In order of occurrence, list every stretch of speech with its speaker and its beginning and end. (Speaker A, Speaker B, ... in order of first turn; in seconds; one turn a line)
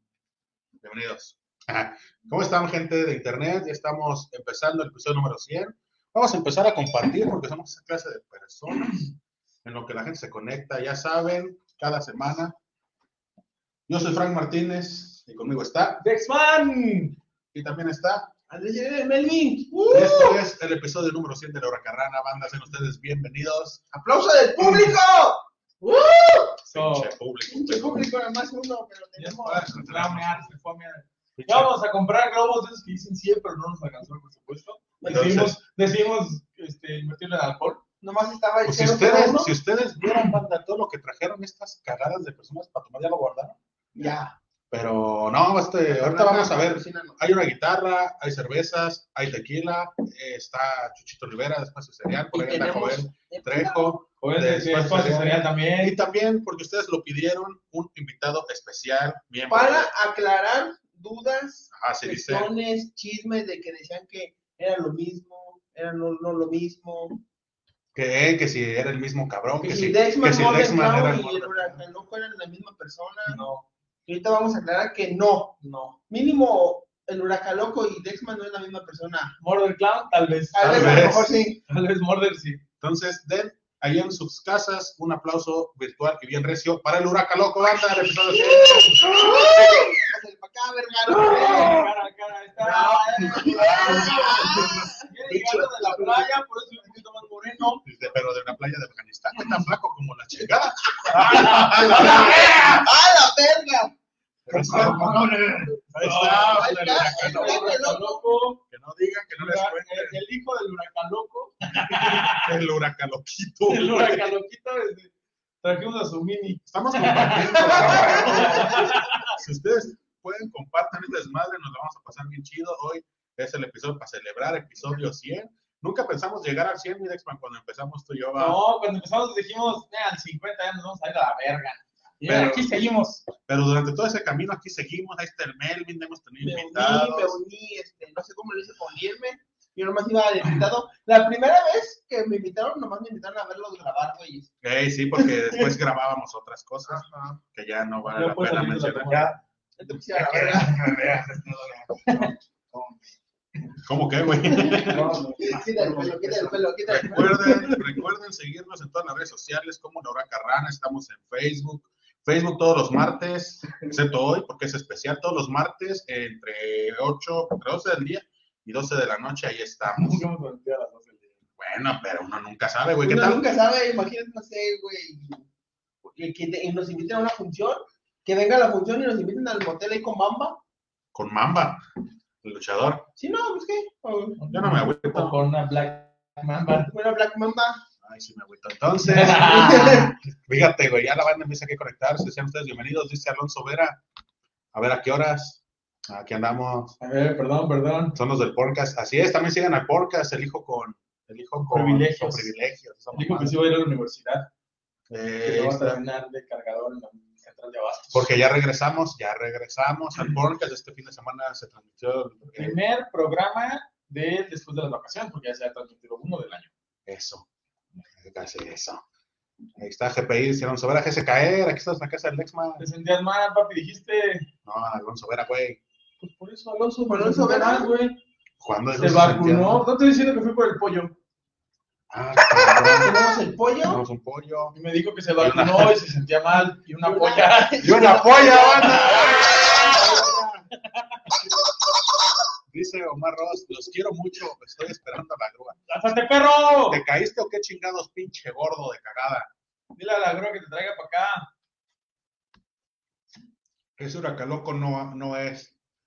Speaker A: 0.8-9.1
Speaker A: 9.6-12.6
Speaker A: 13.9-16.0
Speaker B: 16.0-17.2
Speaker A: 17.5-18.3
Speaker C: 18.5-20.4
Speaker A: 19.9-23.8
Speaker C: 23.9-26.4
Speaker B: 26.0-27.1
Speaker A: 26.7-28.1
Speaker C: 27.5-29.5
Speaker B: 29.2-37.8
Speaker A: 29.4-30.5
Speaker A: 31.4-31.7
Speaker C: 35.0-35.5
Speaker A: 35.1-35.6
Speaker C: 38.0-39.5
Speaker A: 38.6-43.6
Speaker C: 44.0-44.3
Speaker A: 44.7-59.9
Speaker C: 45.9-47.2
Speaker C: 52.3-54.0
Speaker B: 54.2-56.0
Speaker C: 59.5-67.2
Speaker A: 61.7-62.5
Speaker A: 68.0-71.6
Speaker C: 69.6-73.4
Speaker B: 71.0-71.8
Speaker B: 73.3-73.6
Speaker C: 74.1-79.3
Speaker B: 75.6-76.0
Speaker B: 79.4-82.6
Speaker C: 80.5-81.6
Speaker A: 80.6-81.3
Speaker A: 82.8-89.2
Speaker C: 88.5-91.9
Speaker B: 91.2-97.8
Speaker C: 92.6-95.1
Speaker A: 93.5-96.0
Speaker A: 97.8-102.6
Speaker C: 101.0-103.9
Speaker B: 101.2-102.8
Speaker A: 104.5-107.8
Speaker B: 104.5-105.3
Speaker B: 105.9-108.6
Speaker C: 106.5-108.2
Speaker A: 108.7-110.2
Speaker B: 109.4-112.5
Speaker A: 111.9-114.3
Speaker B: 113.7-115.1
Speaker B: 115.6-119.3
Speaker A: 116.7-128.6
Speaker C: 117.7-118.8
Speaker B: 128.4-133.2
Speaker A: 132.2-132.8
Speaker A: 133.4-137.4
Speaker C: 136.4-144.5
Speaker A: 144.6-149.4
Speaker C: 146.9-147.4
Speaker B: 148.0-149.4
Speaker C: 149.8-150.9
Speaker A: 150.1-152.9
Speaker A: 153.8-155.2
Speaker C: 154.4-157.8
Speaker B: 154.8-156.5
Speaker A: 156.8-170.2
Speaker B: 157.1-157.6
Speaker B: 169.8-171.4
Speaker A: 171.6-173.4
Speaker C: 173.0-175.5
Speaker C: 176.1-180.6
Speaker A: 181.1-181.8
Speaker A: 182.4-183.1
Speaker C: 183.2-184.4
Speaker B: 184.4-186.9
Speaker A: 184.5-185.4
Speaker C: 186.8-187.8
Speaker A: 188.0-194.0
Speaker B: 189.1-190.1
Speaker C: 189.4-190.1
Speaker A: 194.7-197.0
Speaker B: 197.0-198.2
Speaker A: 198.2-203.6
Speaker B: 201.7-202.5
Speaker B: 203.1-204.5
Speaker A: 205.1-206.0
Speaker B: 205.4-208.3
Speaker A: 208.1-212.8
Speaker B: 212.6-216.7
Speaker A: 217.1-217.5
Speaker A: 218.2-219.0
Speaker A: 219.8-222.8
Speaker B: 222.8-224.5
Speaker A: 224.7-225.8
Speaker B: 226.2-228.2
Speaker C: 227.1-227.9
Speaker A: 228.6-229.8
Speaker B: 229.0-231.2
Speaker A: 232.1-233.2
Speaker C: 232.5-234.0
Speaker A: 233.8-234.7
Speaker B: 234.7-241.2
Speaker A: 235.4-236.0
Speaker C: 237.0-240.3
Speaker A: 237.8-240.6
Speaker A: 242.7-245.8
Speaker B: 245.9-247.0
Speaker A: 246.9-249.5
Speaker B: 250.0-251.5
Speaker A: 254.0-255.7